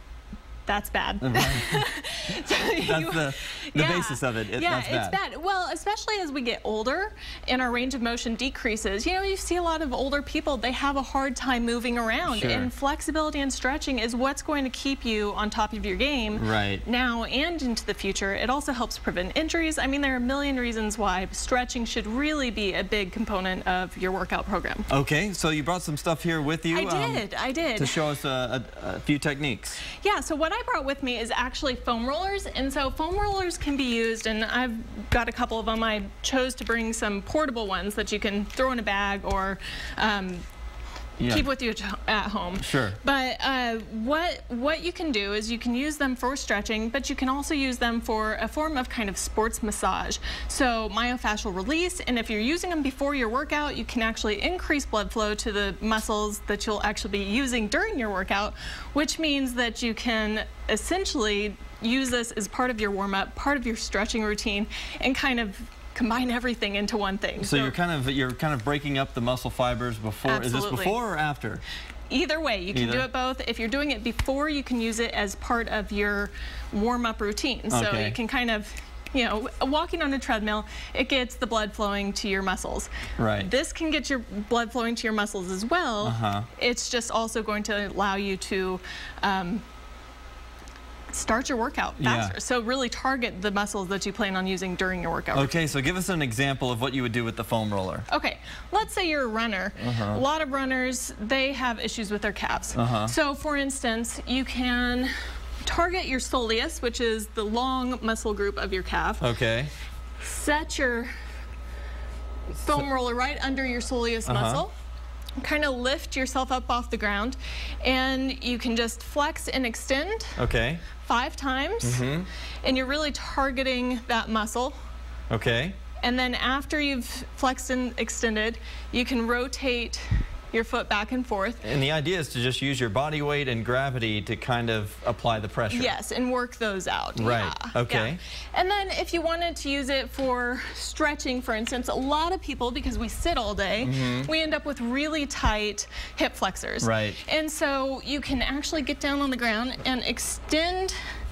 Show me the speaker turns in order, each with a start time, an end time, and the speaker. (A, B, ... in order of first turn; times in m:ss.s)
0:00.6-0:24.9 A
0:01.2-0:01.8 B
0:02.8-0:05.2 B
0:12.3-0:12.7 B
0:16.3-0:16.8 B
0:24.9-0:27.2 B
0:26.7-0:28.0 A
0:27.8-0:29.8 B
0:30.0-0:40.4 A
0:41.2-0:41.4 B
0:41.2-1:07.8 A
0:42.6-0:43.0 B
1:07.4-1:11.6 B
1:10.2-1:11.0 A
1:12.1-1:29.6 A
1:12.7-1:13.0 B
1:17.7-1:18.2 B
1:23.2-1:23.5 B
1:26.0-1:26.5 B
1:31.1-1:35.6 A
1:32.0-1:32.3 B
1:35.3-1:38.1 B
1:38.1-1:45.1 A
1:39.8-1:40.2 B
1:42.7-1:43.1 B
1:45.6-1:49.3 A
1:49.2-1:49.7 B
1:50.2-1:51.1 A
1:52.6-1:54.7 A
1:54.2-1:54.6 B
1:55.4-2:00.4 A
2:00.4-2:00.8 B
2:01.0-2:02.0 A
2:01.8-2:02.3 B
2:02.6-2:04.8 A
2:05.3-2:05.8 B
2:06.0-2:11.6 A
2:11.6-2:15.9 B
2:15.7-2:30.9 A
2:17.2-2:18.2 B
2:23.8-2:24.3 B
2:26.8-2:27.2 B